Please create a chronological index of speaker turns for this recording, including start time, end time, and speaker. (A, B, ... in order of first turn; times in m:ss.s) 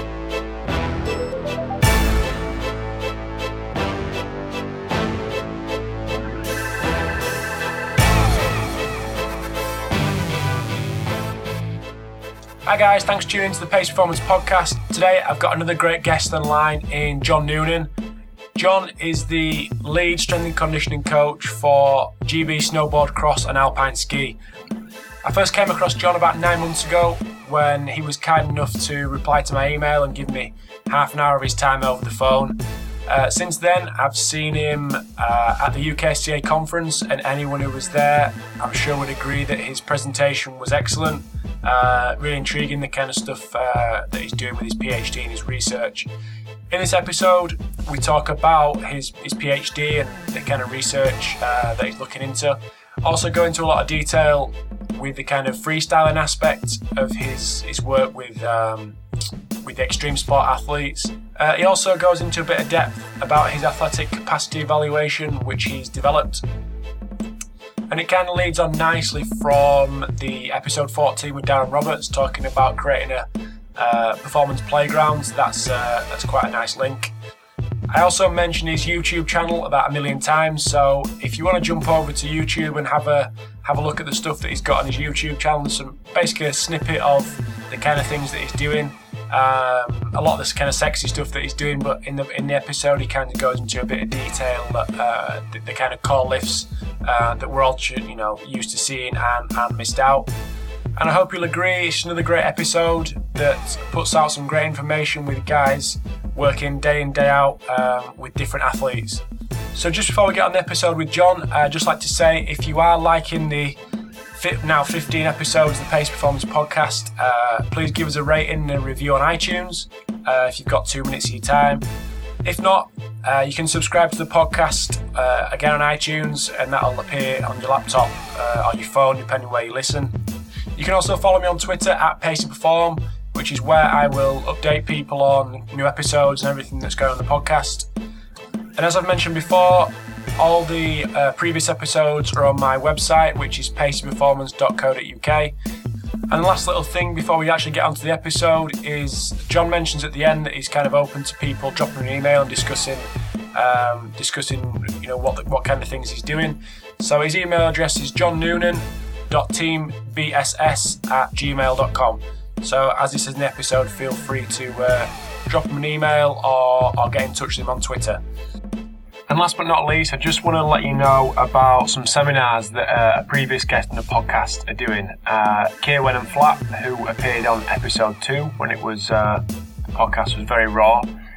0:12.6-0:17.9 A
0:18.6-0:24.4 A
0:25.2-0:46.1 A
0:46.7-0:59.0 A
0:59.6-1:06.4 A
1:07.9-1:17.1 A
1:17.9-1:40.3 A
1:41.0-1:49.2 A
1:49.7-1:53.8 A
1:54.4-2:01.8 A
2:02.4-2:10.2 A
2:10.8-2:17.9 A
2:18.8-2:25.5 A
2:26.3-2:48.2 A
2:49.3-3:01.1 A